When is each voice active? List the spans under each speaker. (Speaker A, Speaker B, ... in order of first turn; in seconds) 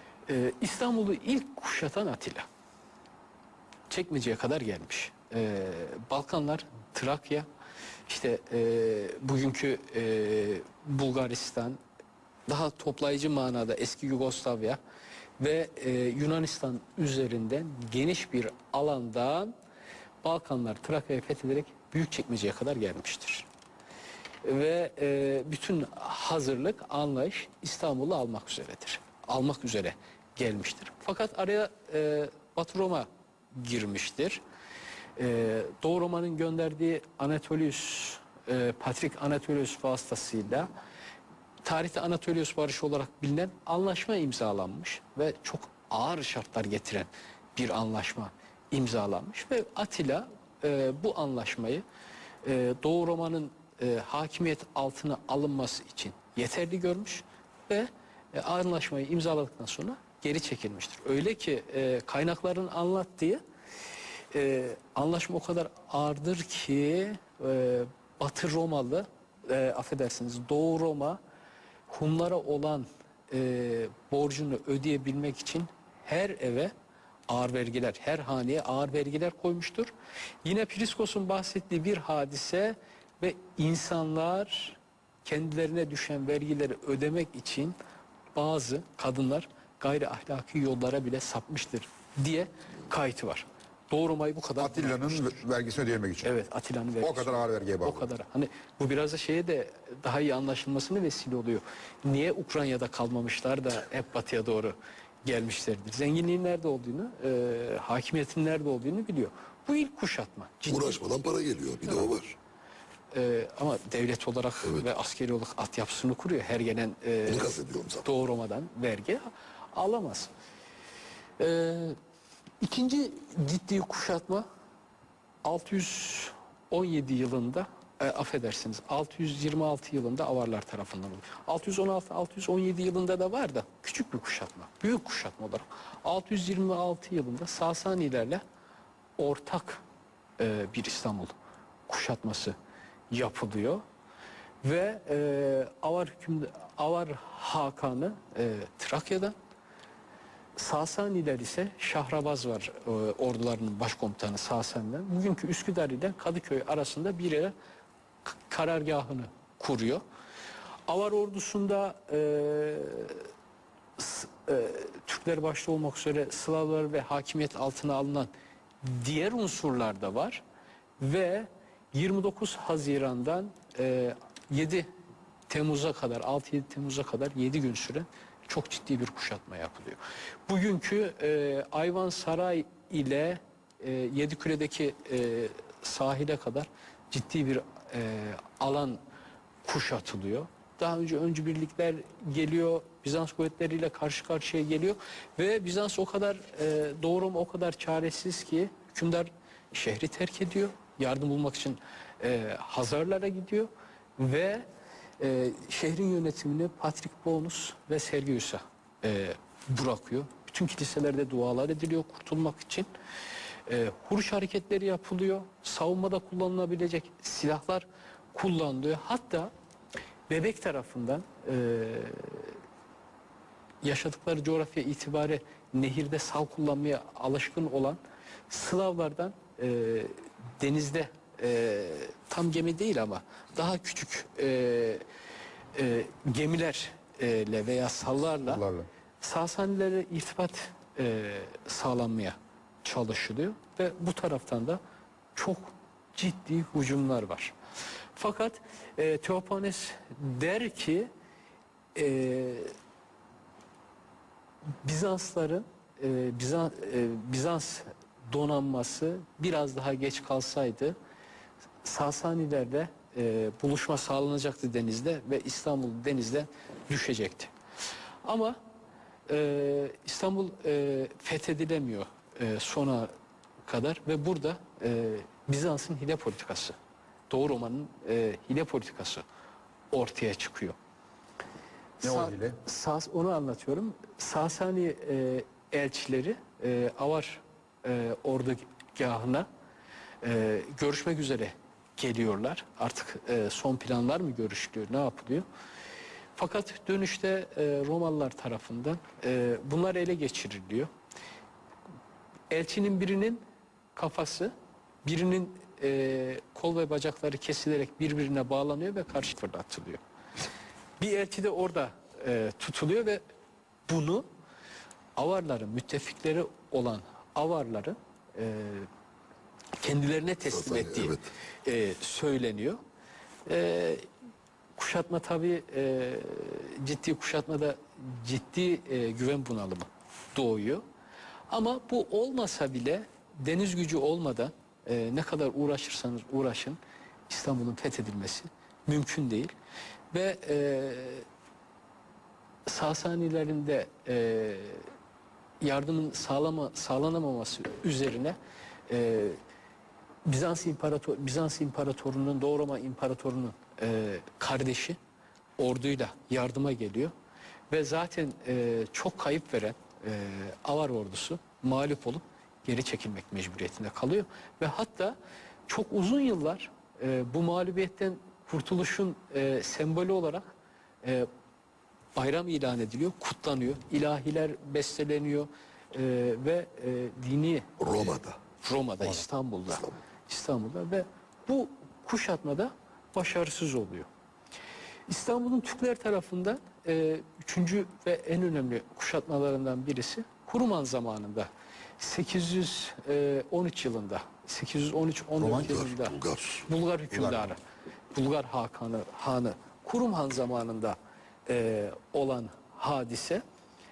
Speaker A: 0.3-2.4, 3.9-7.5, 8.1-11.8, 12.5-14.8, 15.4-19.5, 20.2-23.5, 24.4-34.4, 35.2-40.7, 41.6-51.8, 52.4-63.4, 64.3-71.2, 71.9-76.7, 77.3-79.9, 80.4-87.8, 88.3-95.4, 96.2-111.0, 111.9-112.1, 113.1-120.3, 121.4-122.0, 122.6-124.5, 125.4-138.4, 139.2-139.8, 140.4-141.3, 141.9-142.5, 143.1-143.8, 144.6-149.3, 150.6-157.5, 158.3-160.0, 160.9-163.3, 164.0-168.3, 168.8-170.4, 171.0-174.9, 175.5-189.0, 189.6-204.7, 205.2-212.9, 213.7-219.5, 220.3-222.6, 223.8-235.0, 235.8-238.6, 239.2-244.8, 245.3-247.5, 248.2-251.1, 251.9-252.7, 254.8-260.9, 261.8-267.5, 268.2-268.6, 269.3-273.1, 273.7-276.8, 277.3-279.2, 279.9-280.8, 282.0-289.5, 290.2-295.4, 296.4-300.9, 302.5-303.4, 303.9-304.5, 305.0-310.0, 311.0-313.2, 313.9-314.3, 315.2-318.9, 319.8-322.8, 323.5-324.1, 324.8-330.8, 331.5-339.5, 340.1-341.3, 342.7-344.9, 345.6-348.4, 348.9-349.4, 350.2-355.0, 355.6-357.1, 357.7-365.2, 365.7-370.5, 371.0-371.3, 372.1-377.8, 378.6-384.1, 385.1-397.6, 398.1-403.4
Speaker B: 94.6-96.4, 97.0-98.1, 238.5-238.9, 282.0-282.6, 395.4-395.8, 397.1-397.6
Speaker C: 110.7-112.3, 114.6-114.9, 117.3-118.1, 320.5-321.3, 377.8-378.4, 395.5-396.7